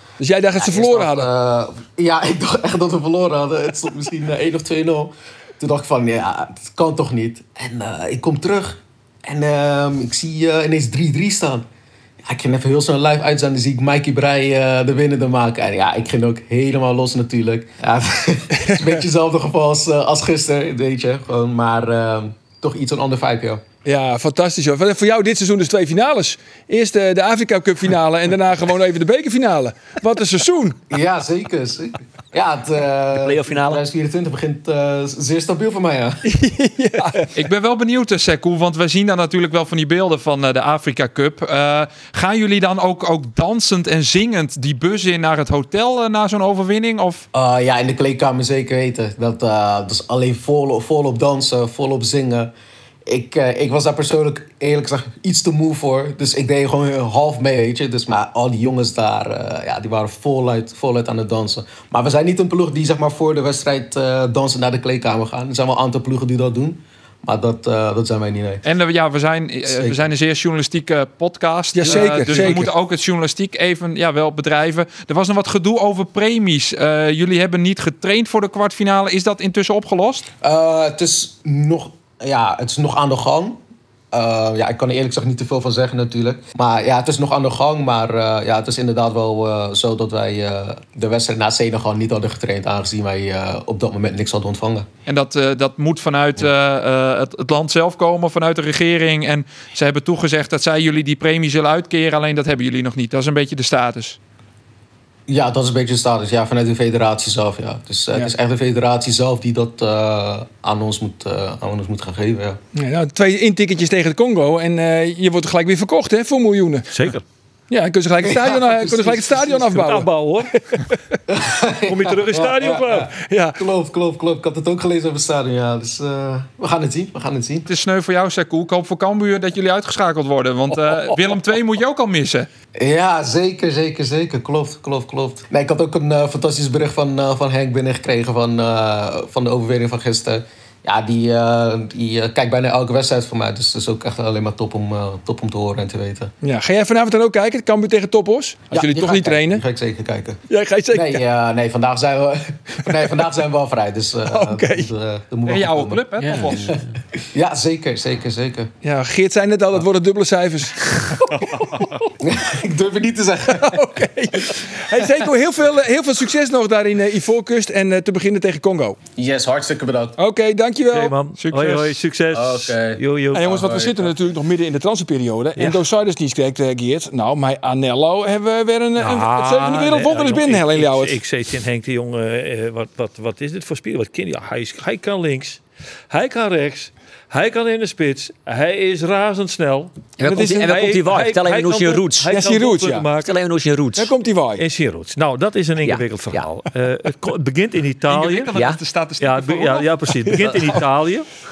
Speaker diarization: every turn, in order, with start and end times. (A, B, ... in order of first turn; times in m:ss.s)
0:00.2-0:01.3 A
0:00.6-0:11.6 B
0:12.2-0:23.6 B
0:18.6-0:18.9 A
0:23.8-0:30.8 A
0:30.9-0:36.2 B
0:33.1-0:33.8 C
0:36.3-0:37.2 A
0:37.3-0:47.2 D
0:47.3-0:52.5 B
0:53.0-1:08.6 B
1:08.6-1:20.3 D
1:09.6-1:10.1 B
1:11.7-1:12.7 A
1:20.4-1:23.6 B
1:24.1-1:34.9 B
1:35.0-1:44.2 D
1:45.3-1:52.6 B
1:52.7-1:56.9 A
1:56.9-1:57.2 E
1:57.7-2:00.1 A
1:58.2-1:59.3 B
1:59.5-2:00.5 E
2:01.3-2:07.7 B
2:01.9-2:03.1 E
2:03.2-2:03.6 A
2:07.7-2:12.5 D
2:12.8-2:26.3 B
2:26.4-2:29.6 A
2:28.7-2:38.7 B
2:30.5-2:31.2 A
2:34.3-2:34.9 A
2:35.5-2:36.8 D
2:38.8-2:42.0 A
2:42.2-2:43.9 B
2:43.5-2:49.0 A
2:49.2-2:50.2 B
2:50.2-2:51.1 A
2:50.9-2:54.1 E
2:51.4-2:52.0 D
2:52.3-2:53.0 B
2:53.3-3:01.2 A
2:55.6-2:55.8 E
2:59.0-3:13.3 E
3:10.2-3:12.3 C
3:10.2-3:10.7 A
3:12.3-3:13.1 A
3:13.2-3:14.1 C
3:14.0-3:14.6 A
3:14.6-3:18.6 E
3:15.8-3:16.5 C
3:18.1-3:20.8 D
3:19.2-3:21.2 E